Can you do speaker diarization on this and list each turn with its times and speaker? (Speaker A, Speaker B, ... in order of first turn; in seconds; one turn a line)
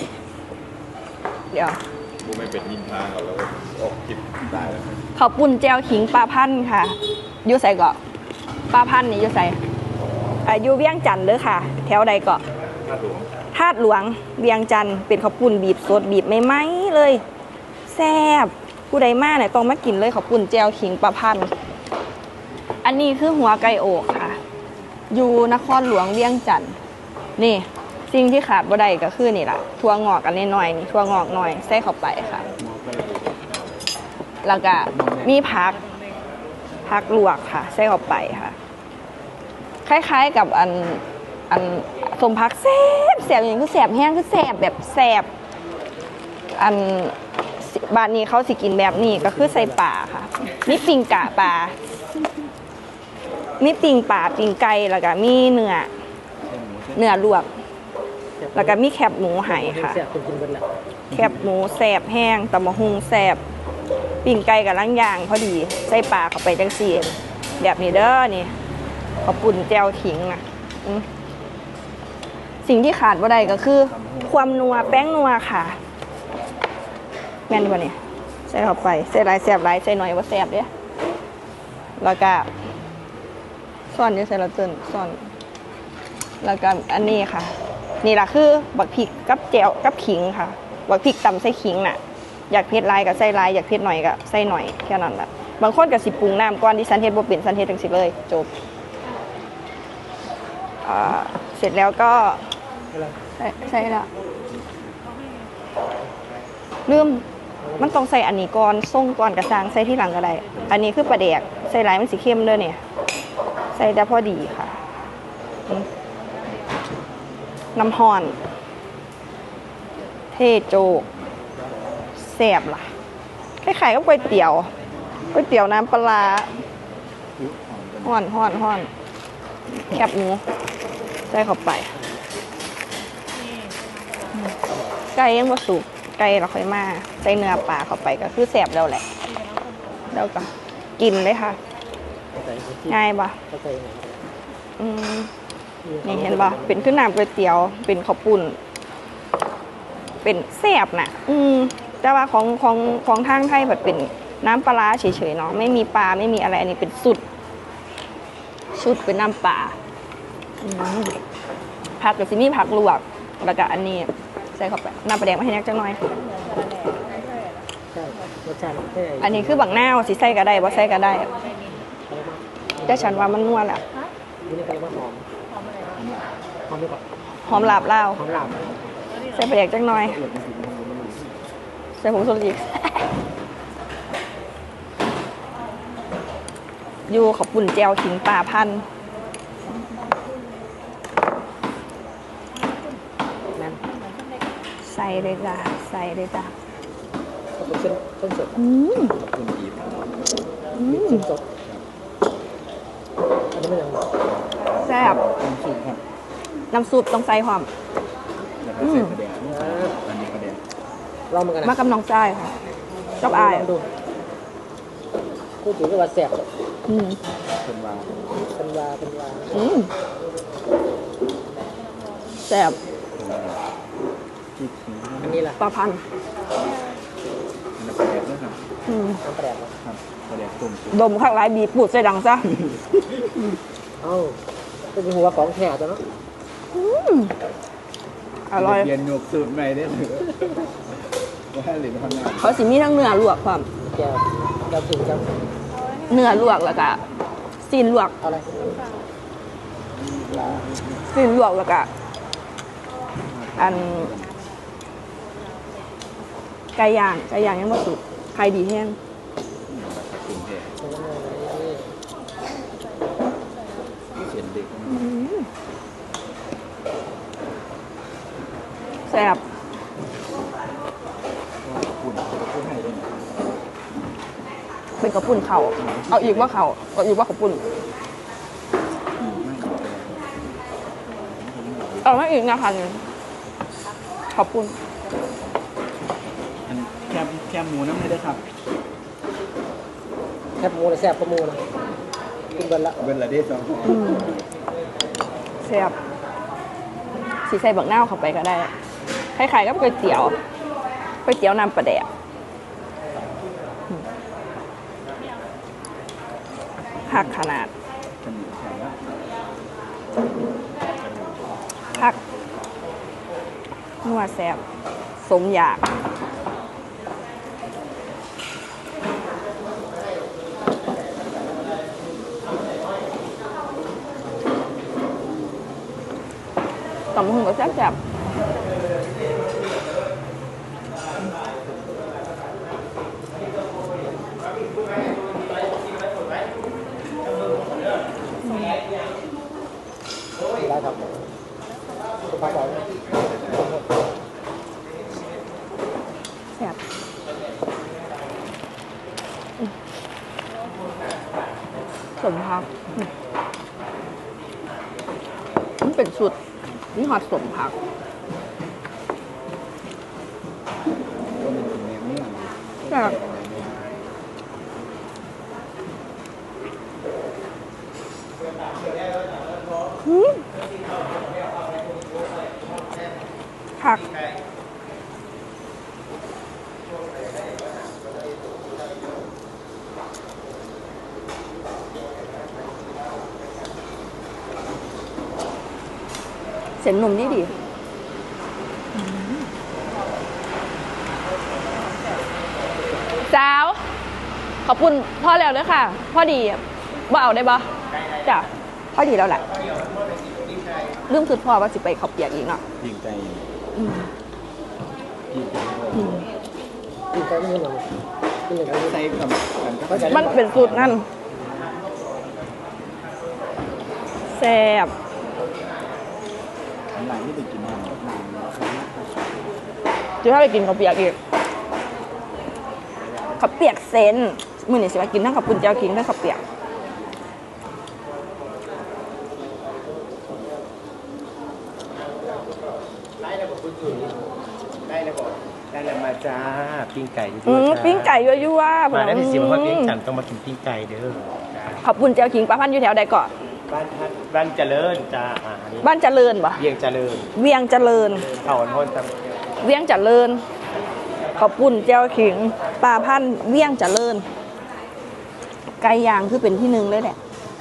Speaker A: 1.5-1.8
Speaker B: 2.2-5.0
Speaker A: 5.2-8.0
Speaker A: 8.7-9.6
Speaker A: 10.4-12.4
Speaker B: 12.9-13.2
Speaker A: 13.5-17.2
Speaker A: 17.9-21.5
Speaker A: 22.8-24.4
Speaker A: 25.1-26.8
Speaker A: 27.4-32.5
Speaker B: 32.6-33.5
Speaker A: 34.4-35.8
Speaker B: 34.9-35.5
Speaker A: 36.9-38.6
Speaker A: 39.9-45.3
Speaker A: 46.5-51.7
Speaker C: 49.0-49.9
Speaker A: 53.6-55.9
Speaker B: 56.4-57.3
Speaker A: 57.0-57.5
Speaker C: 58.4-58.8
Speaker A: 58.5-60.0
Speaker C: 59.4-60.7
Speaker A: 61.1-63.4
Speaker A: 64.2-68.5
Speaker A: 69.2-71.1
Speaker A: 72.6-75.8
Speaker B: 73.4-75.1
Speaker A: 77.5-80.7
Speaker A: 82.0-82.5
Speaker A: 83.9-85.2
Speaker A: 86.4-98.5
Speaker A: 100.8-102.5
Speaker A: 103.4-104.1
Speaker A: 106.9-107.2
Speaker C: 107.6-108.0
Speaker A: 107.8-112.8
Speaker A: 113.7-114.8
Speaker A: 117.8-118.4
Speaker A: 120.3-121.1
Speaker A: 122.2-122.9
Speaker A: 123.6-124.7
Speaker A: 125.3-126.5
Speaker B: 127.4-128.2
Speaker A: 128.0-128.9
Speaker A: 129.8-130.4
Speaker A: 131.3-131.9
Speaker A: 135.2-139.1
Speaker A: 140.1-141.6
Speaker C: 142.4-144.3
Speaker A: 142.9-143.4
Speaker A: 144.8-145.3
Speaker C: 145.8-147.0
Speaker A: 146.0-148.6
Speaker A: 150.2-157.2
Speaker A: 158.8-159.8
Speaker A: 160.6-161.2
Speaker A: 162.0-166.0
Speaker C: 167.9-169.9
Speaker A: 169.2-171.3
Speaker C: 172.1-173.4
Speaker A: 172.9-173.8
Speaker C: 174.5-175.3
Speaker B: 175.9-176.3
Speaker C: 176.7-178.6
Speaker A: 177.4-178.2
Speaker A: 179.3-180.2
Speaker B: 179.9-181.4
Speaker A: 182.0-183.1
Speaker A: 187.1-188.8
Speaker C: 193.6-193.8
Speaker A: 194.8-196.5
Speaker C: 197.6-198.6
Speaker A: 198.6-199.2
Speaker B: 198.9-200.2
Speaker A: 200.8-201.2
Speaker C: 200.8-201.4
Speaker C: 203.5-204.1
Speaker B: 204.3-206.0
Speaker A: 204.8-205.2
Speaker A: 206.7-207.7
Speaker B: 208.6-210.6
Speaker A: 208.8-209.2
Speaker C: 209.5-210.0
Speaker C: 211.3-211.8
Speaker A: 211.6-212.6
Speaker A: 213.2-213.7
Speaker C: 213.2-213.9
Speaker C: 215.6-216.4
Speaker A: 216.9-217.2
Speaker B: 217.6-218.2
Speaker C: 218.5-219.7
Speaker A: 219.5-219.9
Speaker A: 222.4-222.8
Speaker B: 223.2-223.6
Speaker B: 224.6-225.4
Speaker C: 225.2-225.6
Speaker A: 225.6-226.0
Speaker B: 227.8-228.6
Speaker A: 228.9-229.2
Speaker C: 229.2-229.8
Speaker B: 229.8-231.1
Speaker A: 230.9-232.5
Speaker B: 232.7-232.9
Speaker C: 234.0-234.4
Speaker C: 234.9-236.0
Speaker A: 236.7-237.3
Speaker A: 238.5-238.9
Speaker B: 238.6-240.7
Speaker B: 241.5-242.6
Speaker A: 242.4-243.7
Speaker C: 243.8-245.4
Speaker A: 246.1-247.0
Speaker A: 247.6-248.1
Speaker C: 248.2-248.8
Speaker B: 249.9-251.1
Speaker A: 251.1-251.9
Speaker B: 253.2-254.4
Speaker A: 253.6-254.1
Speaker A: 256.8-259.0
Speaker B: 259.7-260.7
Speaker C: 260.8-261.9
Speaker B: 264.1-265.1
Speaker A: 264.9-265.5
Speaker A: 269.1-269.4
Speaker B: 271.6-273.4
Speaker A: 275.0-277.6
Speaker B: 275.8-276.6
Speaker B: 279.2-280.6
Speaker B: 281.3-282.2
Speaker A: 282.0-283.0
Speaker A: 284.3-284.8
Speaker B: 286.7-288.4
Speaker C: 290.6-291.6
Speaker C: 292.5-293.0
Speaker B: 293.0-294.3
Speaker A: 293.9-294.3
Speaker A: 295.6-296.0
Speaker A: 297.5-298.7
Speaker A: 299.4-300.4
Speaker A: 301.2-302.1
Speaker A: 307.1-307.7
Speaker B: 308.2-309.0
Speaker B: 310.9-312.2
Speaker A: 314.0-314.6
Speaker A: 315.2-315.9
Speaker A: 327.1-328.0
Speaker A: 338.5-338.8
Speaker C: 340.6-341.2
Speaker C: 342.3-343.9
Speaker A: 352.2-353.1
Speaker A: 355.8-356.4
Speaker A: 356.9-357.7
Speaker B: 361.4-363.9
Speaker A: 362.9-363.2
Speaker A: 370.1-370.4
Speaker A: 373.8-374.1
Speaker A: 386.8-387.5
Speaker A: 388.9-389.5
Speaker A: 393.2-393.8
Speaker A: 394.6-397.7
Speaker A: 398.2-399.4
Speaker A: 401.1-402.6
Speaker B: 402.8-403.5
Speaker A: 403.8-404.1
Speaker B: 405.3-406.3
Speaker A: 406.0-406.3
Speaker C: 407.1-407.9
Speaker C: 408.5-409.0
Speaker B: 408.7-411.0
Speaker C: 409.9-410.4
Speaker A: 410.1-411.1
Speaker A: 414.3-414.9
Speaker B: 416.9-419.2
Speaker A: 420.2-421.2
Speaker A: 423.4-426.4
Speaker D: 433.2-434.1
Speaker D: 434.9-438.3
Speaker A: 437.4-440.0
Speaker D: 438.9-441.8
Speaker A: 441.8-443.3
Speaker D: 443.7-445.9
Speaker A: 445.8-446.7
Speaker D: 446.6-447.3
Speaker A: 447.3-448.4
Speaker D: 448.3-449.4
Speaker A: 449.6-450.4
Speaker A: 451.4-454.3
Speaker A: 455.8-457.2